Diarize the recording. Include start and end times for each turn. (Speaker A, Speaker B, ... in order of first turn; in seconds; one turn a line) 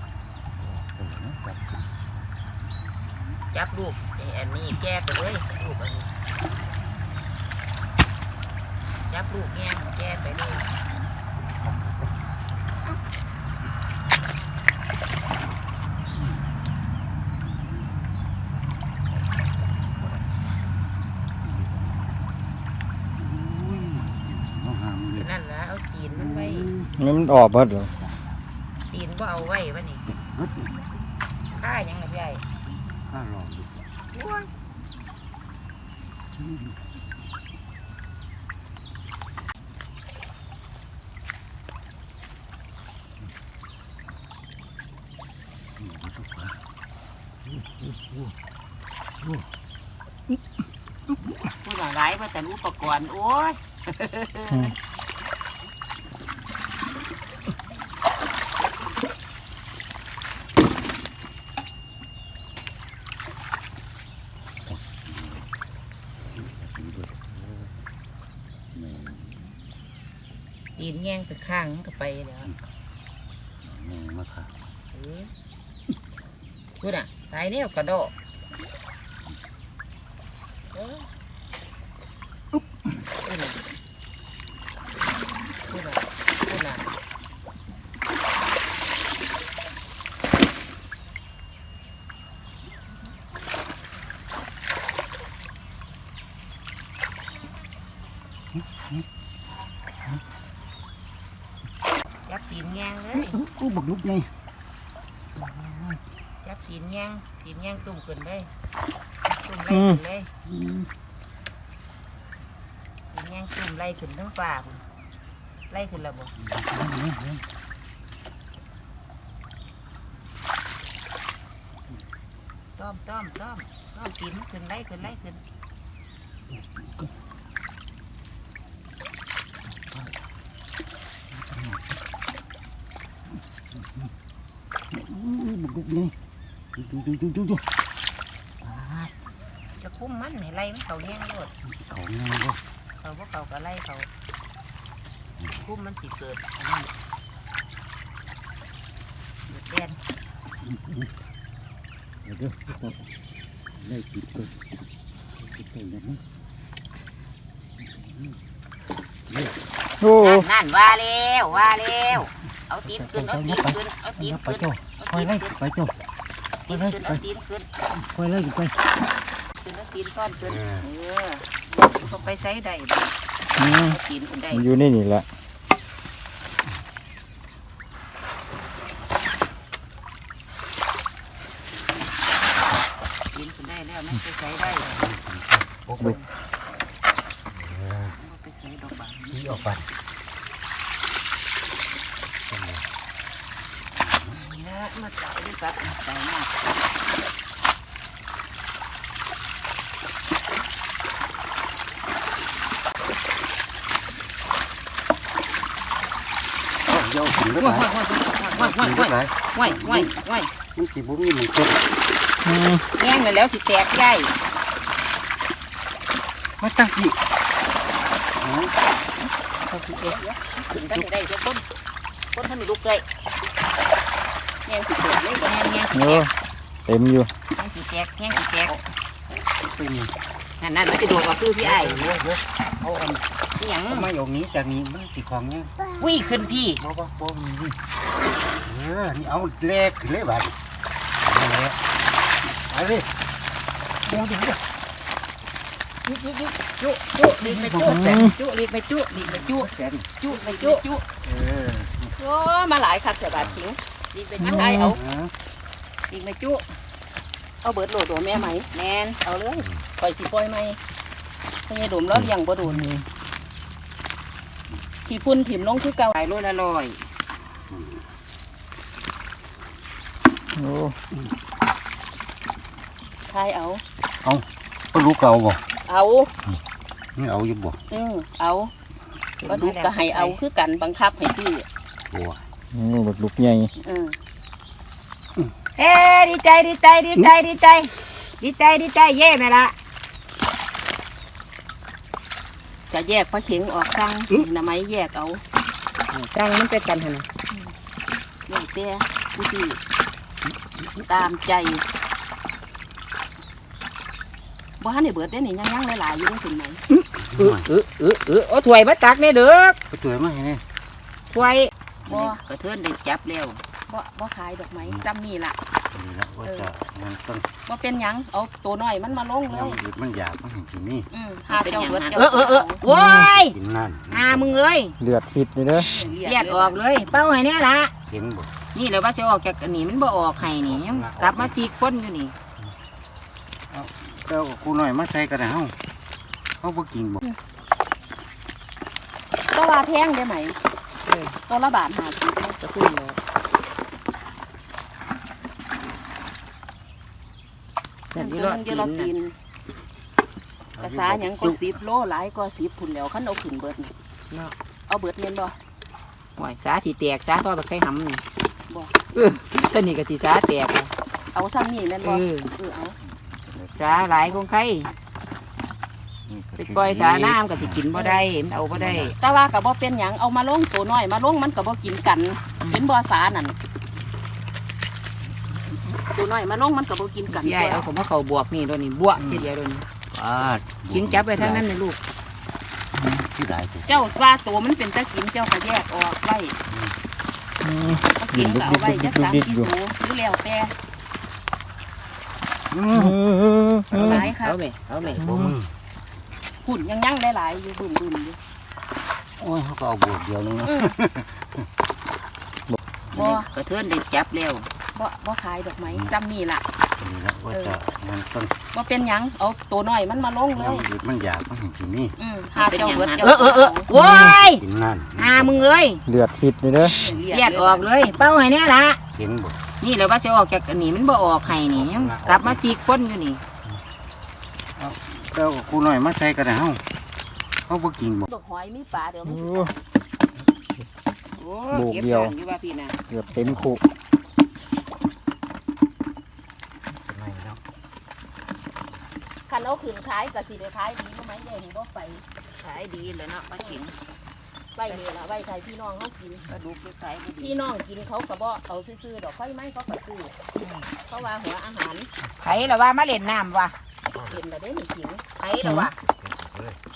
Speaker A: 0.6-1.9
Speaker B: 3.5-6.1
Speaker B: 9.1-10.7
Speaker A: 11.6-12.1
Speaker A: 16.1-16.4
Speaker A: 19.1-20.2
Speaker A: 21.4-22.2
Speaker A: 23.1-25.3
Speaker B: 25.2-26.7
Speaker A: 26.1-26.9
Speaker C: 26.9-27.9
Speaker B: 28.9-30.1
Speaker A: 30.1-30.7
Speaker B: 31.5-32.4
Speaker A: 33.0-33.8
Speaker B: 34.1-34.5
Speaker A: 36.4-36.8
Speaker A: 45.8-46.6
Speaker A: 47.5-48.3
Speaker A: 49.2-49.5
Speaker A: 51.1-51.5
Speaker B: 51.6-54.7
Speaker C: 54.5-54.7
Speaker A: 64.6-65.5
Speaker A: 66.3-67.8
Speaker A: 68.7-69.5
Speaker B: 70.8-72.5
Speaker A: 73.6-74.6
Speaker B: 74.9-75.3
Speaker B: 76.8-78.1
Speaker B: 80.7-81.1
Speaker B: 83.2-83.5
Speaker B: 85.7-86.8
Speaker A: 98.5-99.0
Speaker B: 102.3-103.4
Speaker A: 103.2-104.3
Speaker A: 105.3-106.0
Speaker B: 106.4-108.5
Speaker B: 109.3-110.3
Speaker C: 109.7-110.0
Speaker A: 110.5-110.9
Speaker B: 113.1-114.8
Speaker B: 115.7-116.3
Speaker A: 116.4-117.4
Speaker B: 122.8-125.4
Speaker A: 126.5-127.1
Speaker A: 129.7-130.2
Speaker A: 131.3-132.0
Speaker A: 133.3-134.1
Speaker A: 134.9-136.1
Speaker A: 136.8-137.6
Speaker A: 138.6-139.2
Speaker B: 139.8-141.5
Speaker A: 141.6-142.6
Speaker B: 143.0-144.1
Speaker A: 145.4-145.6
Speaker B: 145.6-146.9
Speaker B: 149.5-150.0
Speaker A: 150.6-151.1
Speaker A: 152.2-153.1
Speaker A: 153.7-156.2
Speaker A: 157.8-158.4
Speaker A: 159.3-159.6
Speaker C: 160.0-160.4
Speaker B: 160.2-165.5
Speaker A: 162.8-165.9
Speaker B: 166.7-167.7
Speaker A: 166.7-167.2
Speaker A: 167.8-168.7
Speaker B: 169.6-174.7
Speaker A: 170.4-170.8
Speaker C: 173.6-174.0
Speaker C: 174.5-175.2
Speaker B: 183.3-184.9
Speaker A: 184.6-186.2
Speaker A: 187.5-188.2
Speaker B: 188.2-189.7
Speaker A: 189.3-189.9
Speaker A: 192.5-192.9
Speaker A: 193.9-194.4
Speaker B: 194.3-196.5
Speaker A: 206.8-207.9
Speaker B: 207.6-210.5
Speaker A: 208.5-210.1
Speaker A: 210.7-211.8
Speaker C: 212.4-212.8
Speaker B: 212.9-214.3
Speaker A: 216.6-217.2
Speaker A: 218.4-218.7
Speaker B: 219.7-221.6
Speaker B: 222.3-223.0
Speaker D: 224.7-225.6
Speaker B: 225.4-226.3
Speaker C: 225.9-226.3
Speaker C: 226.8-227.3
Speaker B: 227.6-228.8
Speaker A: 229.6-230.1
Speaker B: 230.6-232.1
Speaker A: 231.6-233.2
Speaker B: 233.6-234.1
Speaker A: 233.9-236.2
Speaker B: 236.0-236.8
Speaker A: 236.8-237.8
Speaker A: 238.6-240.6
Speaker A: 241.2-241.8
Speaker A: 242.5-243.1
Speaker A: 244.1-244.6
Speaker B: 246.1-249.2
Speaker A: 247.2-248.2
Speaker C: 247.9-248.3
Speaker D: 249.1-249.7
Speaker A: 249.2-250.1
Speaker B: 250.2-251.0
Speaker D: 250.2-251.0
Speaker A: 251.2-252.1
Speaker D: 252.2-253.8
Speaker B: 254.1-255.0
Speaker C: 254.4-254.8
Speaker D: 254.4-255.0
Speaker A: 254.8-255.3
Speaker B: 256.1-256.6
Speaker D: 257.6-258.7
Speaker B: 258.7-259.2
Speaker D: 259.2-260.8
Speaker A: 259.6-259.8
Speaker D: 261.7-262.9
Speaker C: 262.1-263.0
Speaker D: 265.1-266.1
Speaker B: 266.1-267.0
Speaker A: 267.7-268.0
Speaker C: 270.5-270.9
Speaker D: 273.3-273.8
Speaker A: 274.2-275.6
Speaker D: 275.9-276.3
Speaker A: 277.1-277.8
Speaker D: 277.9-278.7
Speaker B: 279.4-280.4
Speaker D: 279.5-281.6
Speaker A: 282.1-282.4
Speaker C: 282.7-283.7
Speaker D: 283.8-284.2
Speaker B: 285.8-289.7
Speaker D: 292.9-295.4
Speaker B: 296.1-297.2
Speaker D: 298.5-299.8
Speaker D: 301.1-301.8
Speaker D: 304.8-306.8
Speaker A: 307.1-307.7
Speaker B: 307.4-309.8
Speaker A: 309.9-310.6
Speaker B: 311.3-313.6
Speaker D: 312.1-312.4
Speaker D: 313.9-315.5
Speaker A: 315.9-317.4
Speaker D: 317.7-319.8
Speaker A: 319.5-321.1
Speaker D: 321.1-322.8
Speaker B: 321.5-323.6
Speaker C: 322.9-323.3
Speaker A: 323.4-324.5
Speaker B: 324.1-324.9
Speaker C: 325.0-325.9
Speaker D: 325.7-326.8
Speaker B: 326.2-327.9
Speaker A: 328.1-328.6
Speaker B: 328.7-332.3
Speaker A: 330.4-331.6
Speaker A: 333.7-335.7
Speaker A: 336.6-337.2
Speaker D: 339.5-340.6
Speaker B: 341.1-341.3
Speaker D: 341.5-342.6
Speaker B: 342.6-343.2
Speaker B: 348.1-349.1
Speaker D: 348.2-349.3
Speaker A: 350.8-351.8
Speaker D: 350.8-353.9
Speaker D: 354.9-355.6
Speaker B: 356.4-358.2
Speaker B: 359.1-360.9
Speaker D: 361.3-362.9
Speaker B: 362.0-362.5
Speaker A: 363.0-364.4
Speaker B: 363.7-364.9
Speaker A: 366.3-367.9
Speaker B: 366.6-369.1
Speaker D: 367.9-368.2
Speaker A: 368.7-369.4
Speaker D: 369.2-373.6
Speaker B: 372.6-372.8
Speaker D: 376.1-377.9
Speaker B: 377.3-379.8
Speaker A: 379.2-379.5
Speaker A: 380.1-381.7
Speaker B: 380.9-382.0
Speaker C: 382.9-383.2
Speaker A: 383.1-384.0
Speaker D: 383.9-386.5
Speaker A: 386.7-387.0
Speaker C: 387.6-389.7
Speaker A: 387.8-388.1
Speaker D: 388.2-390.7
Speaker A: 392.7-393.2
Speaker C: 392.9-394.2
Speaker B: 393.9-395.2
Speaker D: 393.9-394.6
Speaker A: 394.9-395.7
Speaker C: 395.2-395.6
Speaker D: 396.6-398.4
Speaker A: 399.4-401.7
Speaker D: 400.6-400.9
Speaker D: 403.1-403.5
Speaker B: 403.1-404.7
Speaker D: 404.9-406.6
Speaker A: 405.8-406.1
Speaker A: 407.0-408.5
Speaker D: 407.5-407.8
Speaker D: 408.7-410.8
Speaker A: 410.5-412.1
Speaker D: 412.2-413.9
Speaker B: 412.6-414.6
Speaker C: 413.9-414.4
Speaker A: 413.9-415.7
Speaker B: 415.2-416.0
Speaker C: 416.1-416.9
Speaker D: 416.8-417.9
Speaker B: 417.3-419.0
Speaker A: 419.1-419.6
Speaker B: 419.8-423.4
Speaker A: 421.4-422.6
Speaker A: 424.8-426.8
Speaker A: 427.6-428.3
Speaker D: 428.2-429.7
Speaker C: 429.2-429.7
Speaker B: 431.4-433.0
Speaker C: 431.7-432.3
Speaker C: 433.1-433.8
Speaker A: 433.3-433.7
Speaker A: 436.9-437.6
Speaker D: 439.5-442.2
Speaker B: 442.6-443.9
Speaker D: 444.8-446.4
Speaker B: 446.5-447.6
Speaker D: 447.4-450.3
Speaker B: 450.6-450.9
Speaker D: 451.1-452.1
Speaker B: 452.4-453.8
Speaker A: 452.4-452.7
Speaker A: 454.1-454.4
Speaker D: 454.3-455.2
Speaker B: 455.4-456.0
Speaker C: 455.6-455.9
Speaker A: 456.0-456.8